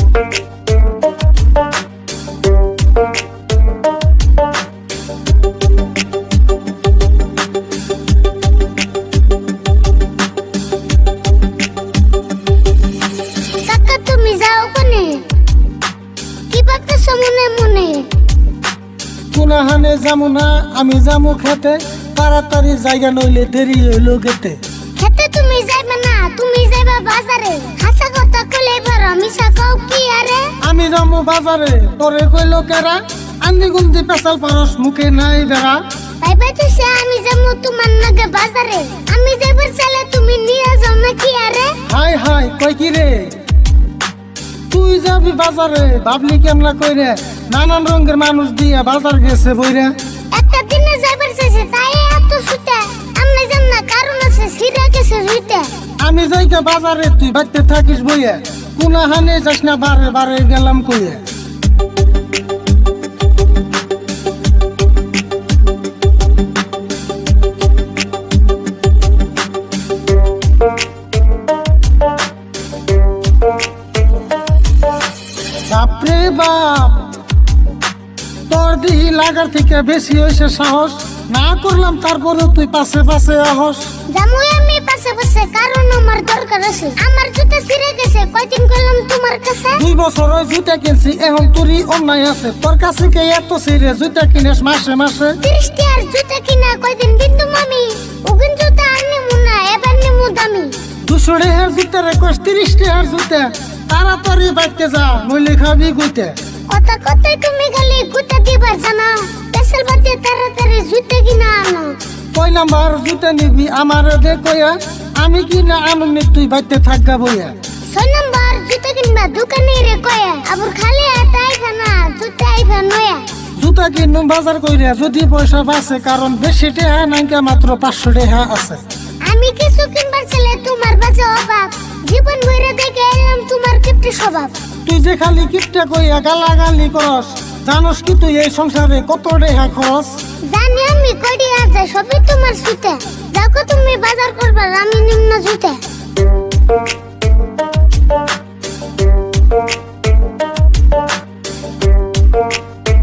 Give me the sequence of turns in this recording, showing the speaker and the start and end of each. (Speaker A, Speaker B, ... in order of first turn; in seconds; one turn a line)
Speaker A: 13.6-15.2
Speaker A: 16.5-18.1
Speaker B: 19.3-24.6
Speaker A: 25.0-30.5
Speaker B: 30.6-35.8
Speaker A: 36.2-41.8
Speaker B: 41.9-43.4
Speaker B: 44.7-49.9
Speaker A: 50.3-55.7
Speaker B: 56.0-61.2
Speaker B: 75.7-77.1
Speaker B: 78.5-83.9
Speaker A: 84.1-89.8
Speaker B: 89.7-95.4
Speaker A: 95.4-100.7
Speaker B: 101.0-106.3
Speaker A: 106.7-112.0
Speaker B: 112.3-117.5
Speaker A: 117.9-123.2
Speaker B: 123.6-128.8
Speaker A: 129.2-134.6
Speaker B: 134.8-140.2
Speaker A: 140.4-145.8